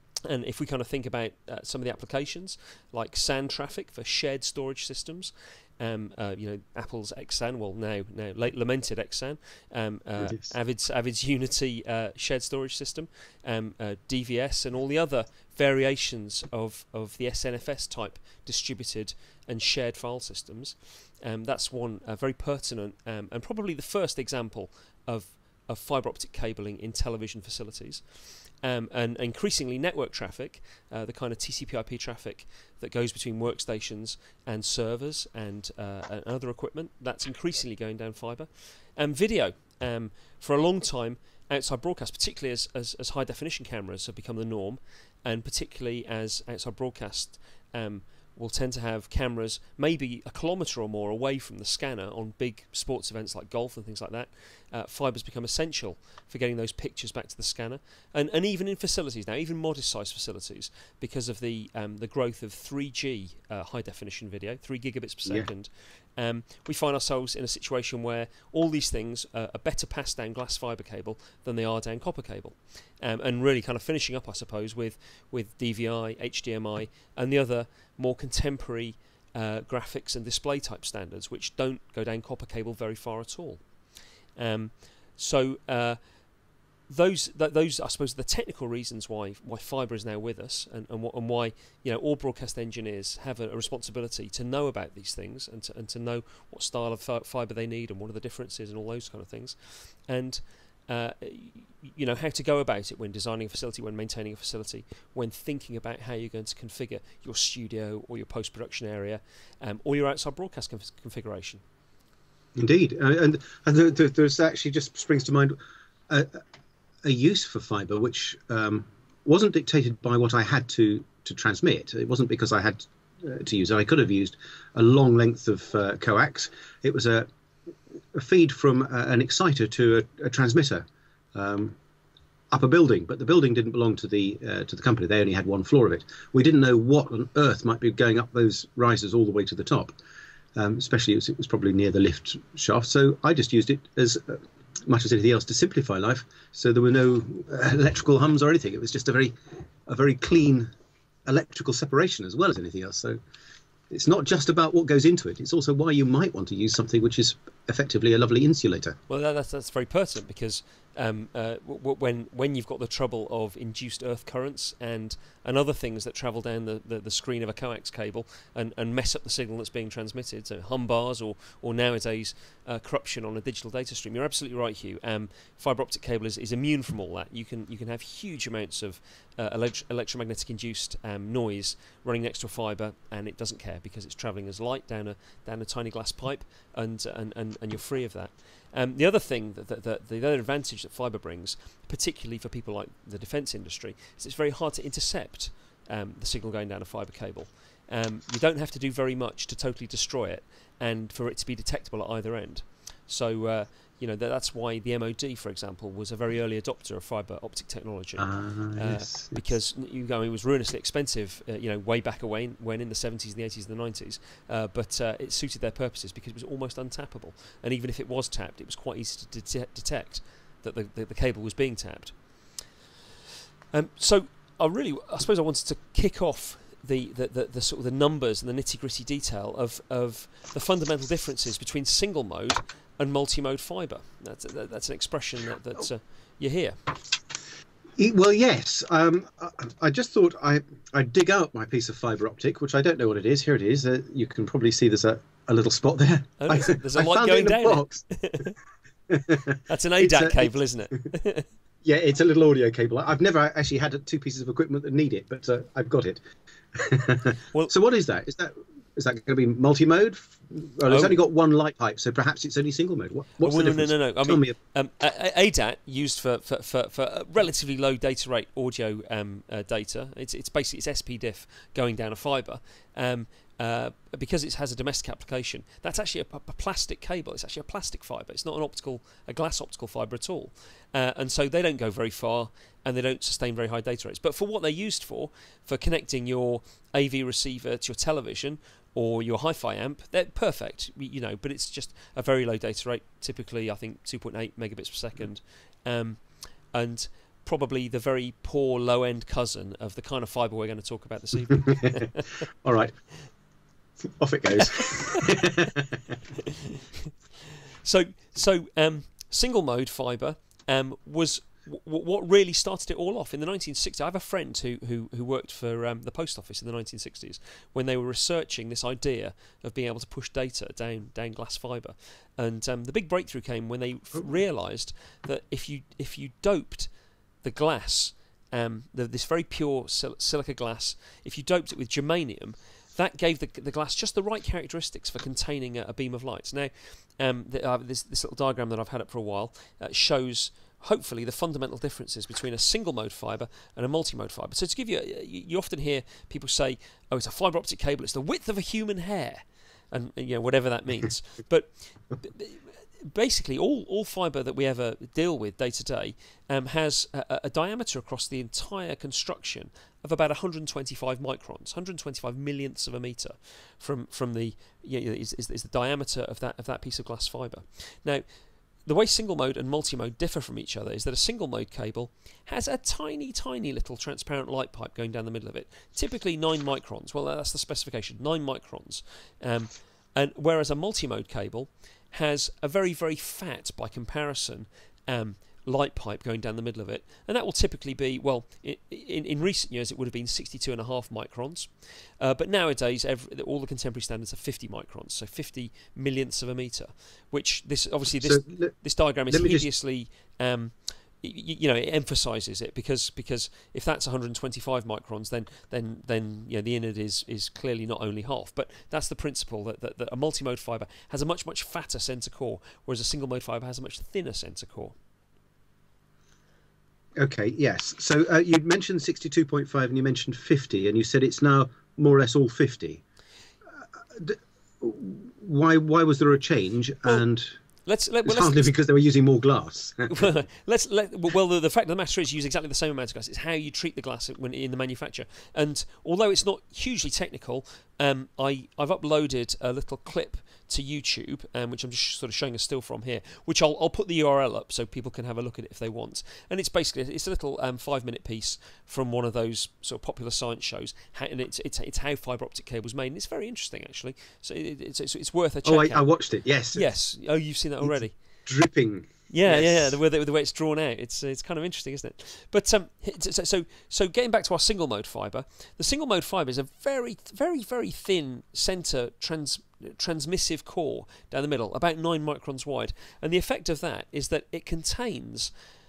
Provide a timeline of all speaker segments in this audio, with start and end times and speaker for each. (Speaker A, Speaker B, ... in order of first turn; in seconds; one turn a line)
Speaker A: 0.3-28.0
Speaker B: 10.2-10.5
Speaker A: 28.6-83.6
Speaker A: 84.3-86.0
Speaker A: 86.9-111.6
Speaker B: 112.5-115.5
Speaker B: 116.1-116.4
Speaker B: 117.0-127.3
Speaker B: 128.1-131.8
Speaker B: 132.5-139.9
Speaker B: 140.6-149.3
Speaker B: 149.8-150.7
Speaker B: 151.2-153.2
Speaker B: 153.9-158.9
Speaker A: 159.1-222.2
Speaker B: 208.2-209.4
Speaker A: 223.7-236.8
Speaker B: 238.0-248.0
Speaker A: 246.4-248.6
Speaker B: 249.1-250.5
Speaker A: 249.7-251.5
Speaker B: 251.8-256.2
Speaker B: 256.7-264.5
Speaker A: 260.9-261.2
Speaker A: 263.4-302.4
Speaker B: 301.7-302.1
Speaker B: 302.6-302.9
Speaker B: 304.0-306.1
Speaker A: 304.7-305.4
Speaker A: 306.4-326.9
Speaker A: 327.4-368.2
Speaker A: 368.9-414.9
Speaker B: 398.2-398.7
Speaker B: 399.3-399.6
Speaker B: 417.2-423.0
Speaker B: 424.1-427.6
Speaker A: 427.9-428.7
Speaker B: 428.2-430.3
Speaker A: 430.1-456.1
Speaker B: 455.6-456.9
Speaker A: 456.7-458.2
Speaker B: 457.8-459.9
Speaker A: 459.3-475.5